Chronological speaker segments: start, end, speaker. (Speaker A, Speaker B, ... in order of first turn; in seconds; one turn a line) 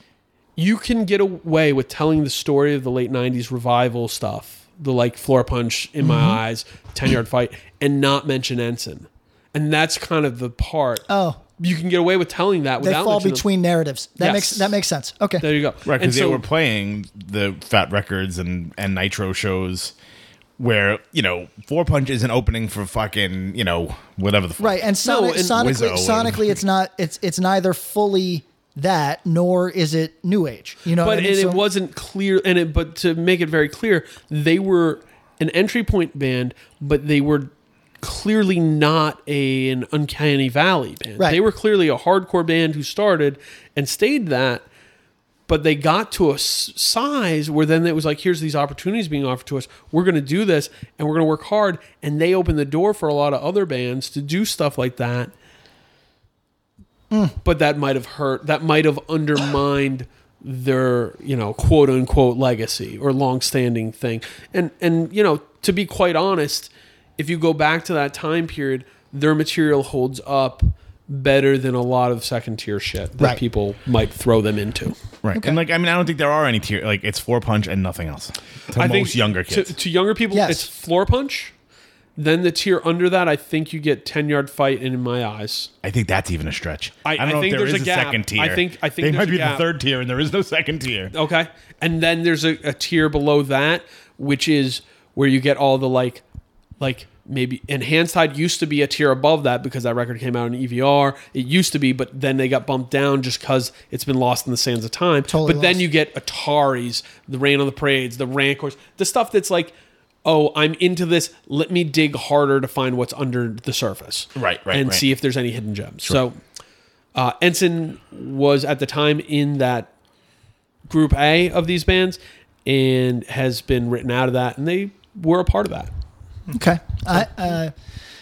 Speaker A: 0.6-11.1
Speaker B: 6.0-6.4
Speaker B: 11.1-11.4
Speaker A: 11.6-13.5
Speaker B: 12.8-15.5
Speaker A: 14.2-14.8
Speaker A: 15.4-16.4
Speaker C: 15.9-19.9
Speaker C: 20.6-24.8
Speaker B: 24.6-31.6
Speaker A: 25.0-25.6
Speaker C: 25.6-26.6
Speaker A: 31.0-44.6
Speaker A: 45.5-55.3
Speaker A: 57.4-75.0
Speaker C: 75.2-79.8
Speaker B: 75.3-75.6
Speaker A: 78.7-81.5
Speaker B: 80.3-80.7
Speaker A: 82.2-85.7
Speaker C: 85.8-91.1
Speaker A: 87.0-89.7
Speaker A: 91.1-96.2
Speaker A: 96.8-109.7
Speaker B: 105.3-105.8
Speaker A: 110.2-116.4
Speaker C: 114.3-115.0
Speaker A: 117.2-119.9
Speaker A: 120.9-125.9
Speaker B: 126.5-127.7